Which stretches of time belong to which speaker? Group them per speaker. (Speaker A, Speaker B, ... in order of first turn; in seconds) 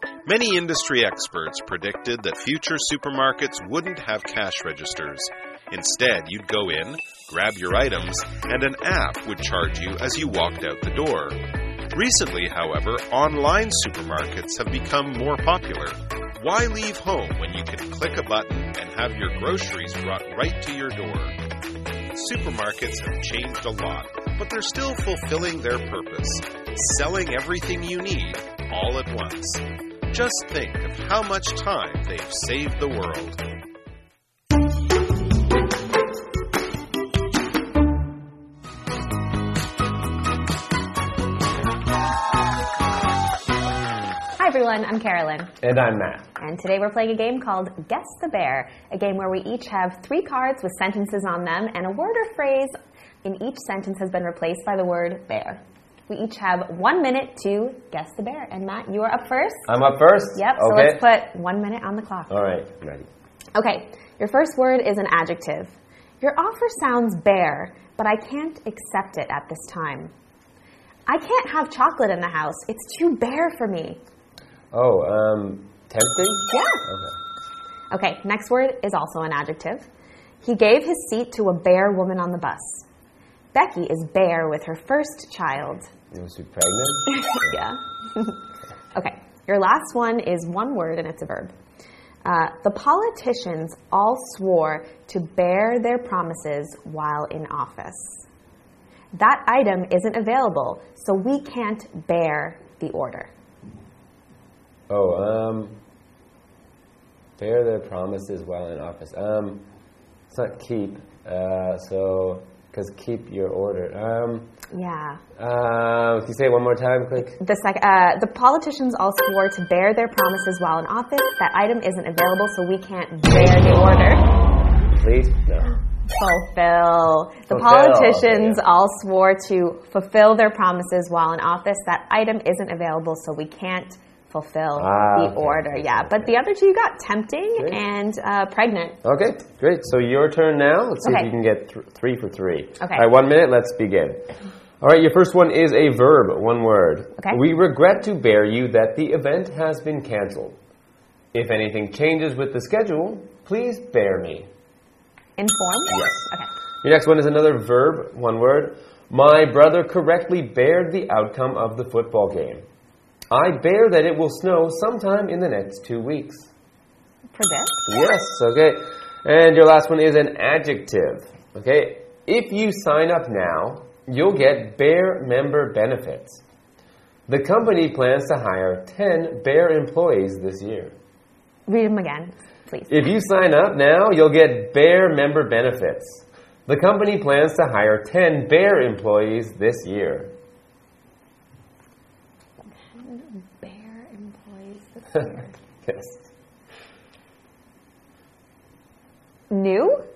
Speaker A: 0.3-21.4, 22.1-33.4
Speaker B: 44.4-45.6, 46.4-59.7, 60.4-62.4, 63.5-70.1, 71.1-74.0, 76.5-76.8, 77.9-79.9, 80.4-82.8, 83.5-85.9, 87.3-88.4, 88.9-91.5, 92.2-98.2, 99.1-103.3, 114.7-115.2, 117.4-124.3, 126.2-139.0, 141.0-141.3, 142.8-143.1, 155.4-156.5, 167.3-167.9, 181.7-182.9, 192.8-195.6, 199.5-200.1
Speaker C: 45.6-46.3, 59.7-61.0, 62.3-63.1, 74.7-77.1, 86.1-87.7, 104.9-105.8, 107.4-109.7, 110.3-114.5, 115.4-117.4, 124.9-125.8, 127.5-128.6, 134.8-136.4, 137.6-137.8, 139.0-150.6, 151.3-154.5, 155.9-156.2, 156.8-162.6, 163.3-166.5, 167.9-176.4, 177.3-180.9, 182.9-190.3, 195.8-196.3